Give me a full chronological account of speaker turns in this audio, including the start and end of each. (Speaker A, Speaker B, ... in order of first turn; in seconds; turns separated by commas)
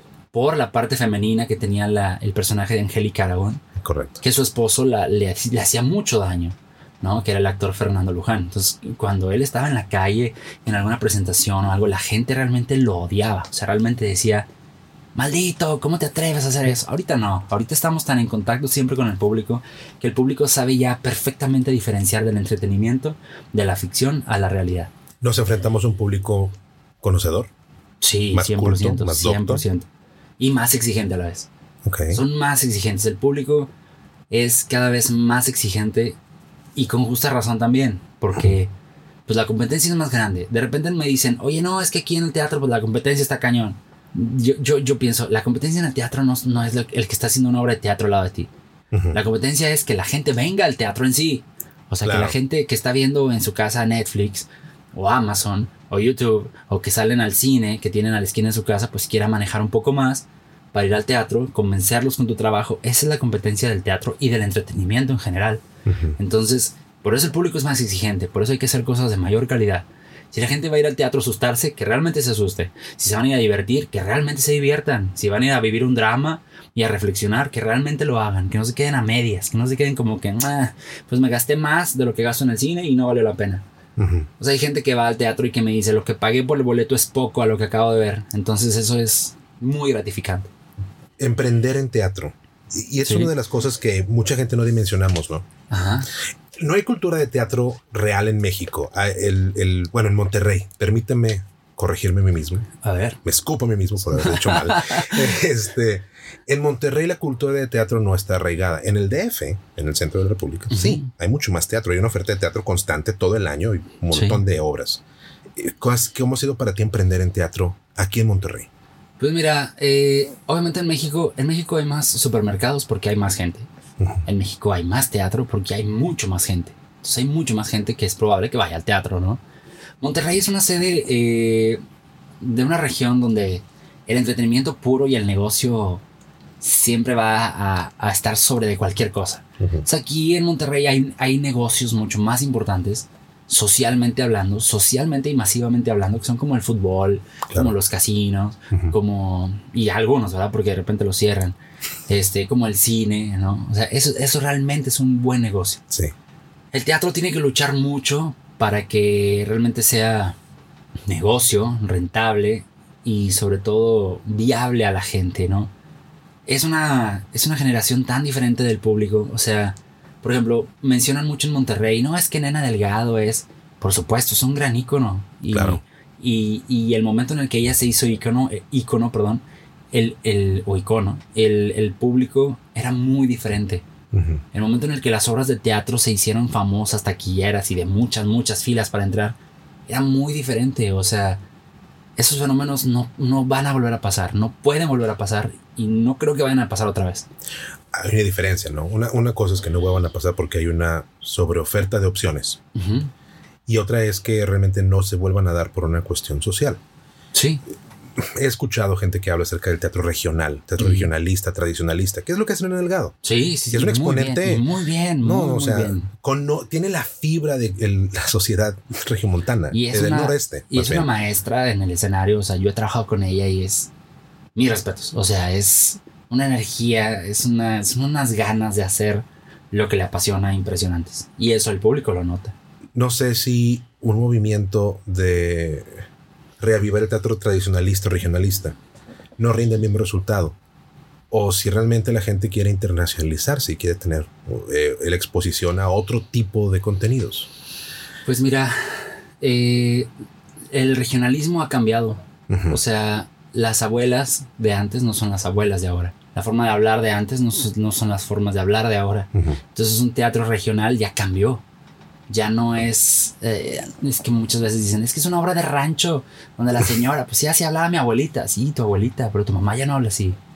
Speaker A: 0.3-3.6, Speaker B: 3.8-4.2, Speaker A: 4.2-14.5, Speaker A: 15.1-24.9, Speaker B: 25.2-27.5, Speaker A: 28.0-29.9, Speaker B: 28.3-29.6, Speaker A: 30.4-31.5, Speaker B: 31.8-32.2, Speaker A: 32.1-33.7, Speaker A: 34.3-36.2, Speaker A: 36.7-38.7, Speaker A: 39.3-48.5, Speaker B: 48.9-49.2, Speaker A: 49.1-65.6, Speaker B: 52.0-52.3, Speaker B: 65.8-66.2, Speaker A: 66.2-83.6, Speaker B: 84.0-84.3, Speaker A: 84.4-90.5, Speaker B: 91.2-95.5, Speaker A: 93.0-93.3, Speaker A: 95.7-96.1, Speaker B: 96.5-102.7, Speaker A: 102.8-103.2, Speaker B: 103.2-115.0, Speaker A: 104.2-105.3, Speaker A: 110.7-111.1, Speaker A: 114.1-114.4, Speaker B: 115.5-118.7, Speaker A: 119.2-123.7, Speaker A: 124.2-129.4, Speaker A: 130.0-131.8, Speaker A: 132.4-136.0, Speaker A: 136.6-151.6, Speaker B: 139.6-139.8, Speaker A: 152.1-155.8, Speaker A: 156.7-160.3, Speaker A: 161.1-165.7, Speaker A: 166.4-183.8, Speaker B: 175.5-175.8, Speaker B: 184.1-184.4, Speaker A: 184.5-189.4, Speaker A: 189.9-191.4, Speaker A: 192.2-197.3, Speaker B: 197.9-202.6, Speaker A: 202.7-203.1, Speaker B: 203.7-206.8, Speaker A: 207.3-207.6, Speaker B: 208.2-213.2, Speaker A: 210.8-211.1, Speaker A: 213.2-216.1, Speaker B: 213.7-214.7, Speaker B: 215.2-221.1, Speaker A: 219.7-223.9, Speaker A: 224.5-232.5, Speaker B: 232.9-236.0, Speaker B: 236.6-238.8, Speaker B: 239.4-240.6, Speaker B: 241.3-247.5, Speaker A: 248.2-250.1, Speaker A: 250.7-261.6, Speaker B: 252.5-252.8, Speaker A: 262.3-270.4